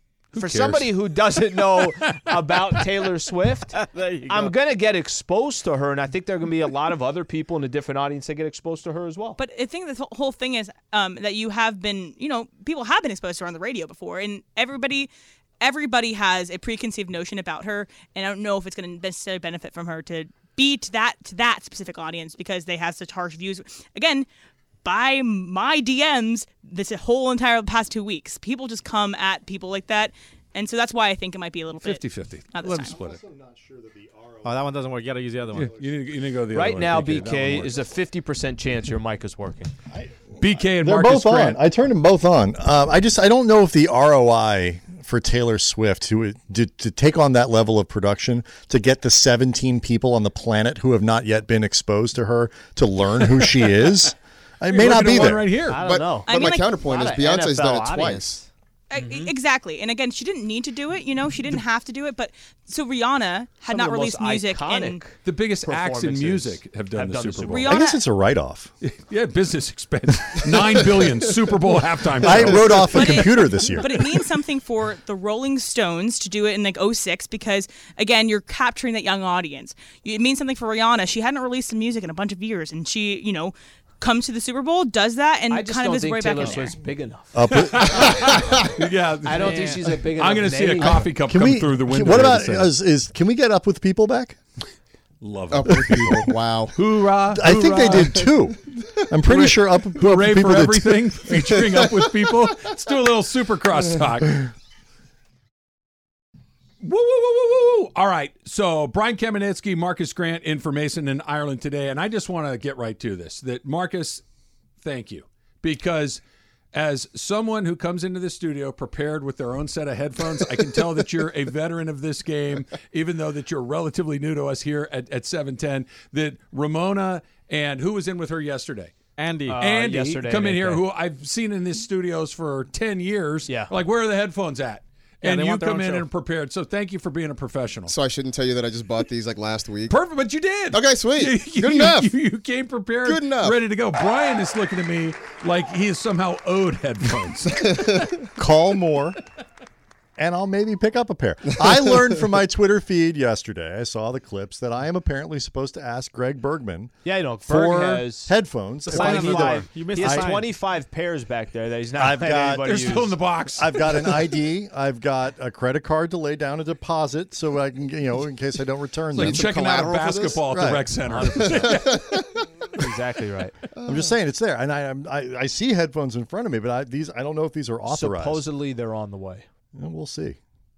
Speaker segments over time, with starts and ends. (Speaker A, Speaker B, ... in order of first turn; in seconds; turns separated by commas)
Speaker A: 0.3-0.9, Speaker B: 0.3-9.4, Speaker A: 1.6-2.3, Speaker C: 3.8-4.5, Speaker D: 9.4-24.3, Speaker D: 24.8-32.9, Speaker A: 31.8-33.2, Speaker E: 32.8-34.8, Speaker C: 34.4-35.7, Speaker A: 35.5-37.8, Speaker E: 35.5-36.1, Speaker B: 36.5-39.7, Speaker E: 39.9-55.6, Speaker A: 40.4-41.6, Speaker A: 54.7-55.8, Speaker B: 54.9-58.5, Speaker F: 55.7-58.4, Speaker D: 56.3-56.7, Speaker D: 58.9-65.0, Speaker B: 63.7-67.7, Speaker A: 65.2-67.7, Speaker D: 67.4-68.0, Speaker E: 67.7-68.7, Speaker A: 68.8-73.3, Speaker E: 72.2-74.2, Speaker D: 72.9-86.8, Speaker B: 85.5-87.4, Speaker E: 87.3-88.7, Speaker A: 87.5-92.7, Speaker B: 89.2-91.1, Speaker C: 89.4-89.8, Speaker E: 90.8-94.4, Speaker A: 95.2-98.3, Speaker F: 95.5-96.8, Speaker E: 95.7-96.3, Speaker E: 97.3-101.8, Speaker A: 99.2-104.4, Speaker A: 106.8-114.2, Speaker A: 114.8-116.2, Speaker A: 116.7-128.9, Speaker C: 129.2-129.6, Speaker B: 129.5-130.8, Speaker A: 129.6-137.9, Speaker B: 133.5-133.7, Speaker C: 135.2-136.1, Speaker F: 137.9-140.0, Speaker A: 139.9-147.7, Speaker F: 140.7-142.1, Speaker F: 143.0-143.6, Speaker F: 147.6-148.2, Speaker E: 148.4-149.2, Speaker E: 150.2-156.9, Speaker F: 151.8-152.1, Speaker B: 157.0-158.3, Speaker E: 157.4-160.4, Speaker C: 158.9-160.5, Speaker B: 158.9-163.2, Speaker A: 159.1-159.5, Speaker E: 161.9-169.5, Speaker A: 162.6-164.1, Speaker F: 169.1-170.5, Speaker A: 169.1-172.0, Speaker E: 170.4-171.7, Speaker B: 171.1-171.6, Speaker F: 171.4-172.4, Speaker B: 172.8-173.6, Speaker F: 173.8-174.1, Speaker E: 173.9-178.5, Speaker B: 177.9-179.4, Speaker E: 179.7-180.4